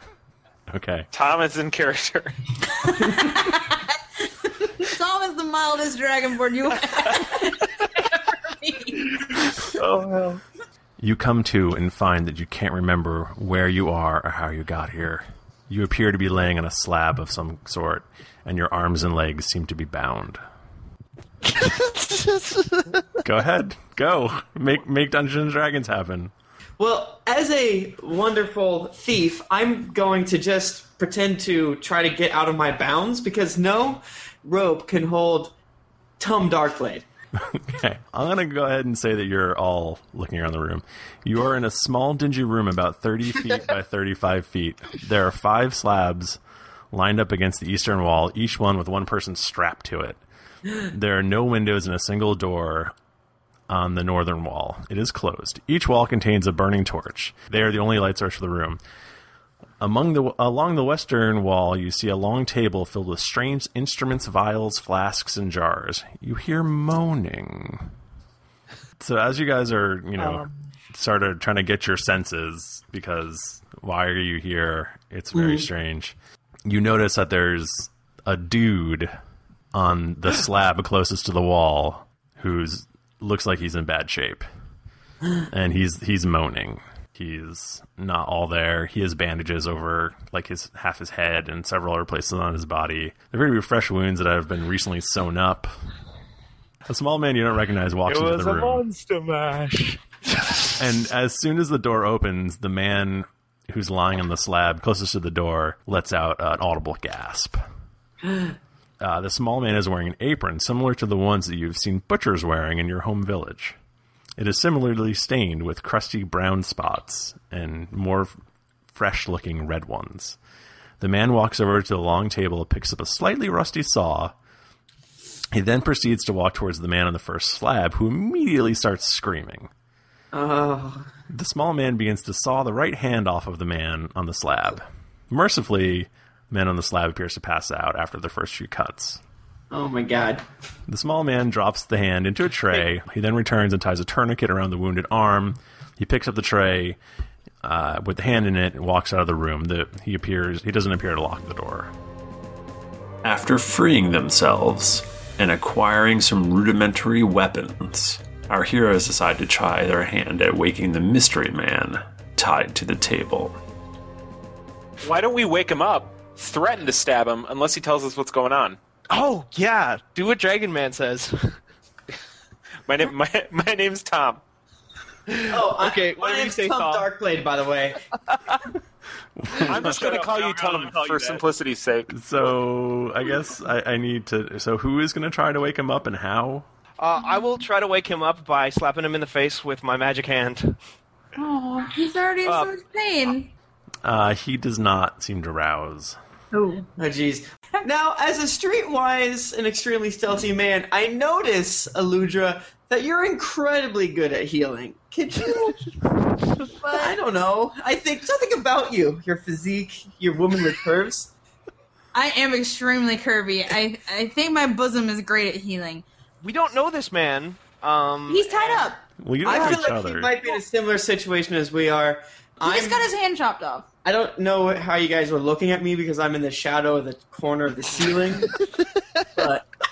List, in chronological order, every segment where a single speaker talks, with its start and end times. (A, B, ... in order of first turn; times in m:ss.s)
0:00.7-0:01.1 A
0:01.1-0:02.3 B
0:02.8-0:09.4 C
0:09.8-0:10.4 D
0:11.0-0:20.4 A
0:21.4-0:23.0 D
0:23.2-0:26.3 A
0:26.8-0:35.5 E
0:36.2-0:37.0 E
0:37.5-0:46.4 A
0:46.9-0:50.2 A
0:50.8-0:52.9 A
0:53.7-0:58.8 A
0:59.8-1:07.9 A
1:09.0-1:19.1 A
1:10.2-1:10.5 D
1:15.4-1:15.7 E
1:19.7-1:24.5 A
1:25.5-1:35.7 A
1:36.9-1:38.8 A
1:38.1-1:40.7 D
1:40.8-1:47.6 A
1:49.0-1:53.8 A
1:54.4-1:58.3 A
1:58.9-2:00.4 A
2:01.0-2:04.3 A
2:05.5-2:09.7 A
2:10.3-2:11.1 E
2:11.3-2:19.2 A
2:19.7-2:20.4 E
2:20.9-2:27.0 A
2:27.6-2:31.9 A
2:33.2-2:43.6 F
2:45.0-2:48.8 B
2:49.1-2:51.5 D
2:52.9-2:54.4 B
2:55.3-2:57.1 D
2:55.5-2:58.0 E
2:58.3-2:58.6 D
2:59.4-3:00.1 A
2:59.6-3:01.4 D
2:59.6-3:02.1 B
3:02.1-3:06.7 A
3:07.0-3:10.8 D
3:11.4-3:13.5 C
3:12.4-3:12.7 D
3:14.0-3:16.2 A
3:16.5-3:16.9 C
3:17.0-3:25.8 E
3:26.7-3:27.2 C
3:27.0-3:31.3 E
3:32.1-3:36.0 C
3:36.4-3:38.8 D
3:38.3-3:39.0 C
3:39.2-3:40.3 A
3:39.4-3:43.1 E
3:39.5-3:40.0 D
3:42.6-3:43.9 C
3:44.0-3:48.6 E
3:49.4-3:49.7 E